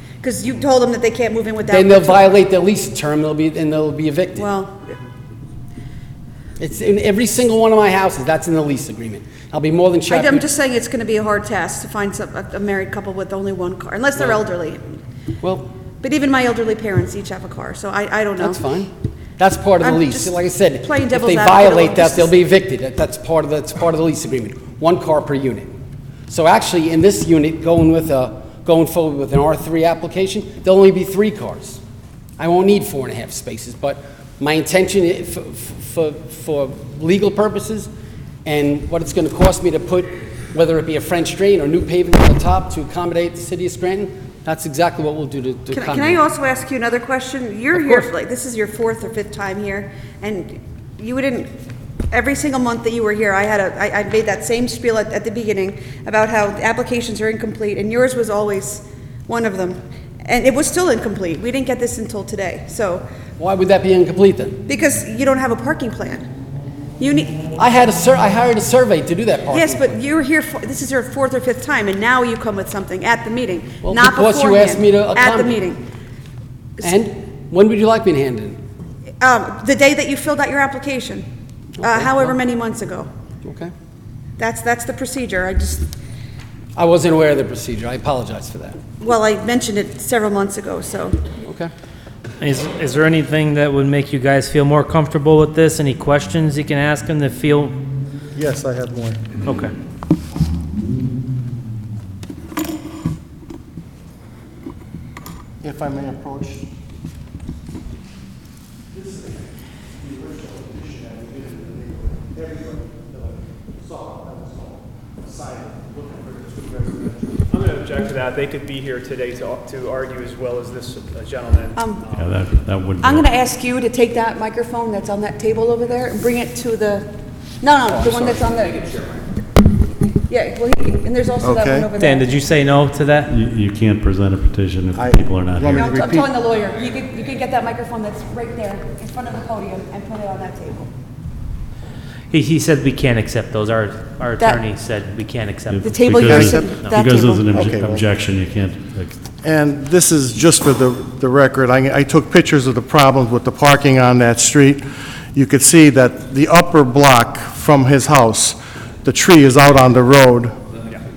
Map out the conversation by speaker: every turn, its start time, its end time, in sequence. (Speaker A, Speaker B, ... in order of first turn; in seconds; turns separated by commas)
Speaker A: 0.2-2.3, Speaker B: 1.7-4.5, Speaker A: 4.4-5.0, Speaker B: 6.6-10.4, Speaker A: 10.1-14.9, Speaker B: 15.4-15.7, Speaker A: 16.0-18.6, Speaker B: 18.4-25.7, Speaker A: 19.8-22.3, Speaker B: 26.3-31.8, Speaker B: 32.4-37.9, Speaker B: 38.5-46.2, Speaker A: 45.7-51.5, Speaker B: 47.8-48.0, Speaker A: 52.1-63.0, Speaker B: 63.4-64.6, Speaker A: 64.7-66.3, Speaker A: 67.0-67.4, Speaker B: 67.6-70.0, Speaker A: 69.5-75.8, Speaker B: 73.8-75.6, Speaker B: 76.8-78.6, Speaker A: 79.2-81.3, Speaker B: 81.8-82.4, Speaker A: 81.8-83.1, Speaker B: 83.4-83.7, Speaker A: 84.4-85.9, Speaker B: 86.8-88.8, Speaker A: 89.0-91.2, Speaker B: 91.4-91.7, Speaker C: 92.4-97.8, Speaker D: 98.3-99.4, Speaker C: 99.4-99.7, Speaker D: 105.6-106.7, Speaker D: 108.9-117.5, Speaker E: 117.5-122.3, Speaker A: 121.8-122.0, Speaker F: 122.1-123.3, Speaker A: 123.0-127.1, Speaker A: 127.6-128.9, Speaker A: 130.2-132.3, Speaker D: 131.4-131.9, Speaker C: 132.0-133.3, Speaker F: 133.3-135.9, Speaker D: 135.0-136.3, Speaker A: 135.7-140.9, Speaker C: 142.3-146.9, Speaker F: 145.7-149.2, Speaker A: 145.8-147.5, Speaker D: 146.2-146.9, Speaker D: 147.5-148.1, Speaker D: 149.4-160.6